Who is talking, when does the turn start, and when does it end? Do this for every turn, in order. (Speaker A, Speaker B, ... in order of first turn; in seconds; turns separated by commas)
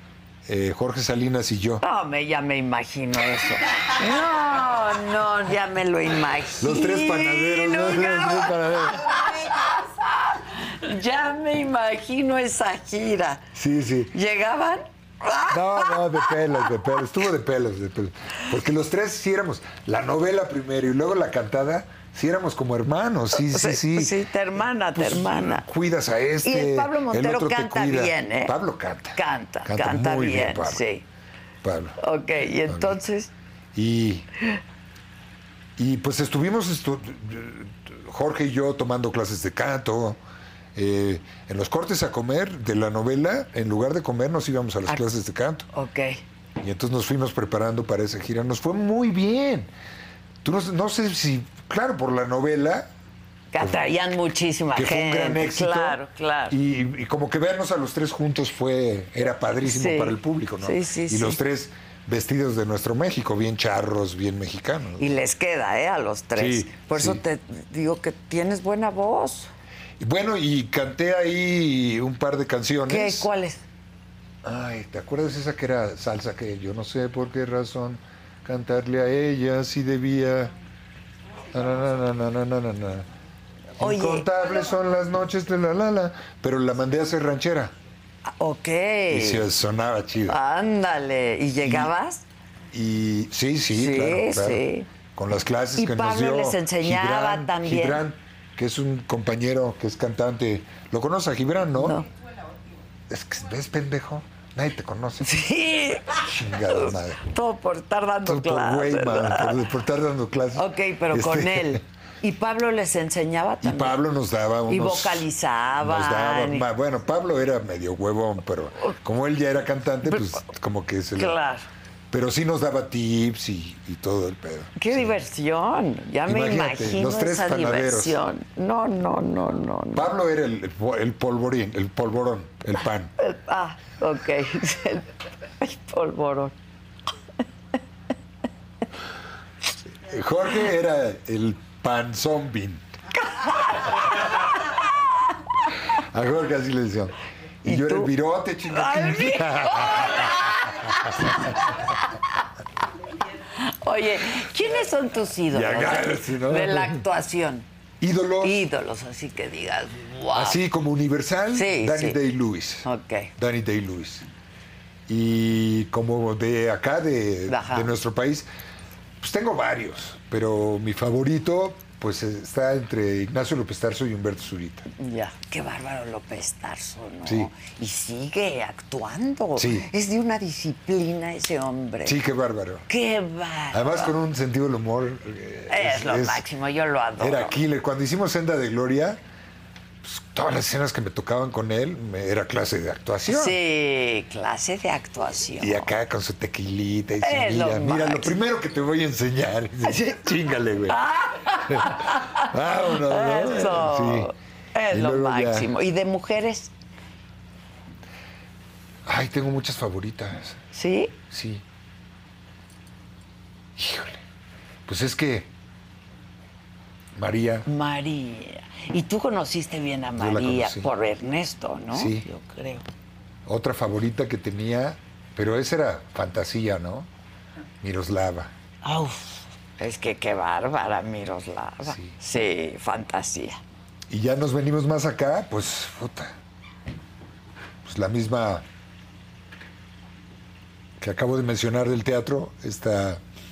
Speaker A: 0.5-1.8, Speaker B: 1.8-13.4, Speaker A: 6.6-9.2, Speaker A: 13.6-14.1, Speaker B: 14.1-17.0, Speaker A: 15.5-24.2, Speaker B: 23.3-25.7, Speaker A: 24.9-30.8, Speaker B: 26.4-28.6, Speaker B: 29.2-31.0, Speaker A: 31.6-32.0, Speaker B: 32.0-33.3, Speaker A: 32.7-33.0, Speaker A: 33.8-34.3, Speaker A: 35.8-40.2, Speaker A: 40.8-45.7, Speaker B: 45.7-46.2, Speaker A: 46.6-49.7, Speaker A: 50.4-52.9, Speaker B: 53.5-56.6, Speaker A: 54.8-65.1, Speaker B: 59.6-61.4, Speaker B: 65.0-69.5, Speaker A: 66.4-67.2, Speaker A: 70.0-73.3, Speaker B: 72.9-73.6, Speaker A: 74.4-80.5, Speaker A: 81.5-83.1, Speaker A: 83.8-87.7, Speaker B: 83.8-84.3, Speaker B: 88.4-89.5, Speaker A: 89.1-90.4, Speaker B: 90.3-92.2, Speaker A: 91.6-91.9, Speaker A: 92.7-94.6, Speaker B: 93.7-94.9, Speaker A: 95.2-102.0, Speaker B: 95.8-98.0, Speaker B: 101.8-102.1, Speaker A: 103.1-105.3, Speaker B: 105.2-109.6, Speaker A: 106.1-107.2, Speaker A: 108.2-111.8, Speaker B: 110.5-114.0, Speaker A: 113.6-115.3, Speaker B: 114.7-116.7, Speaker A: 115.8-121.3, Speaker B: 120.1-120.4, Speaker B: 121.2-121.7, Speaker A: 122.1-125.1, Speaker B: 124.8-130.1, Speaker A: 126.3-128.2, Speaker A: 129.9-133.1, Speaker B: 133.2-135.1, Speaker B: 135.6-136.6, Speaker A: 140.1-142.8, Speaker B: 143.6-143.8, Speaker A: 146.0-151.8, Speaker B: 147.7-148.1, Speaker B: 148.7-152.4, Speaker B: 153.5-157.7, Speaker A: 155.5-157.0, Speaker A: 158.0-158.6, Speaker B: 158.4-160.6, Speaker A: 160.3-162.9, Speaker B: 161.5-162.2, Speaker B: 162.8-163.3, Speaker A: 163.4-164.2, Speaker A: 165.1-168.5, Speaker B: 167.5-167.9, Speaker A: 169.2-174.9, Speaker B: 175.0-182.2, Speaker A: 179.6-179.9, Speaker A: 182.1-182.8, Speaker B: 182.9-184.1, Speaker A: 183.7-186.4, Speaker B: 185.7-187.6, Speaker A: 187.2-189.2, Speaker A: 190.0-193.6, Speaker B: 193.3-195.9, Speaker A: 195.6-201.0, Speaker B: 197.2-198.3, Speaker B: 200.9-206.7, Speaker A: 201.7-204.3, Speaker A: 204.9-205.7, Speaker A: 209.1-210.6, Speaker B: 210.7-211.2, Speaker A: 211.3-211.6, Speaker A: 213.8-214.2, Speaker A: 214.9-215.5, Speaker A: 217.2-217.7, Speaker B: 217.7-222.8, Speaker A: 220.2-220.9, Speaker A: 221.9-222.3, Speaker A: 223.5-227.1, Speaker A: 227.8-228.5, Speaker B: 228.8-233.6, Speaker A: 231.9-232.1, Speaker A: 234.1-236.3, Speaker A: 237.8-238.7, Speaker A: 241.0-243.2